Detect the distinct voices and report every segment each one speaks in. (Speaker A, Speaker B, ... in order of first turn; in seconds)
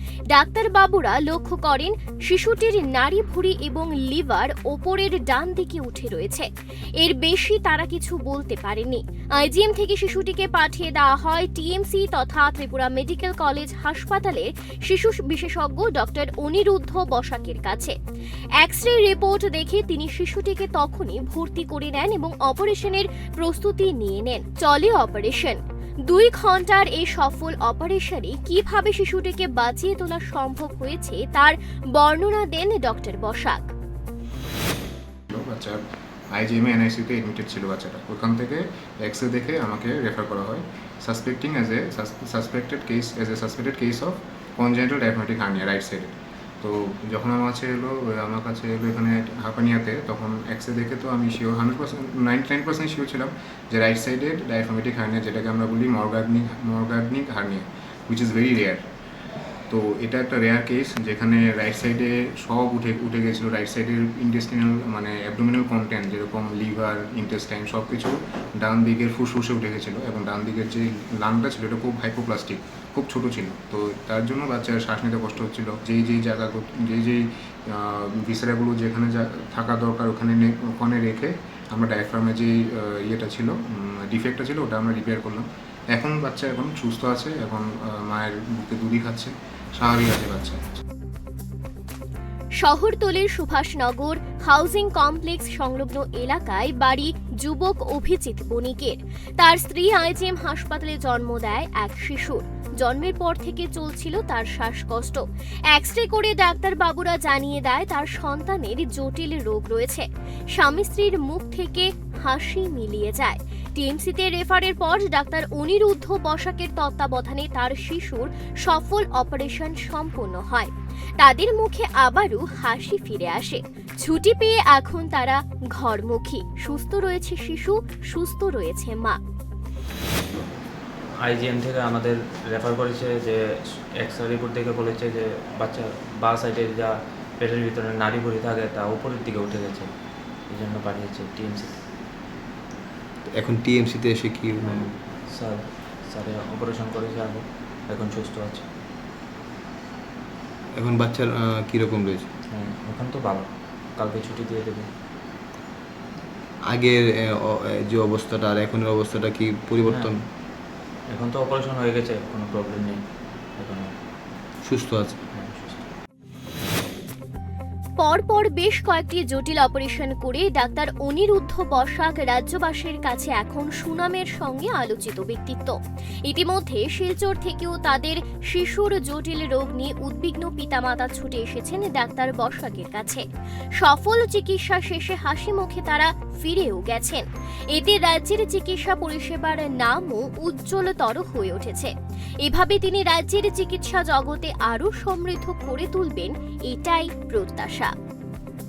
Speaker A: 0.3-17.9, 18.6-33.7, 92.6-129.2, 168.0-183.2, 183.8-197.9
Speaker B: 35.3-35.8, 36.3-58.8, 59.7-90.8
Speaker C: 131.2-133.4, 134.0-141.8, 144.6-148.7, 152.5-154.9, 159.8-160.1, 161.1-163.9, 165.3-165.9
Speaker D: 143.3-144.9, 150.8-152.3, 156.7-160.2, 164.7-165.2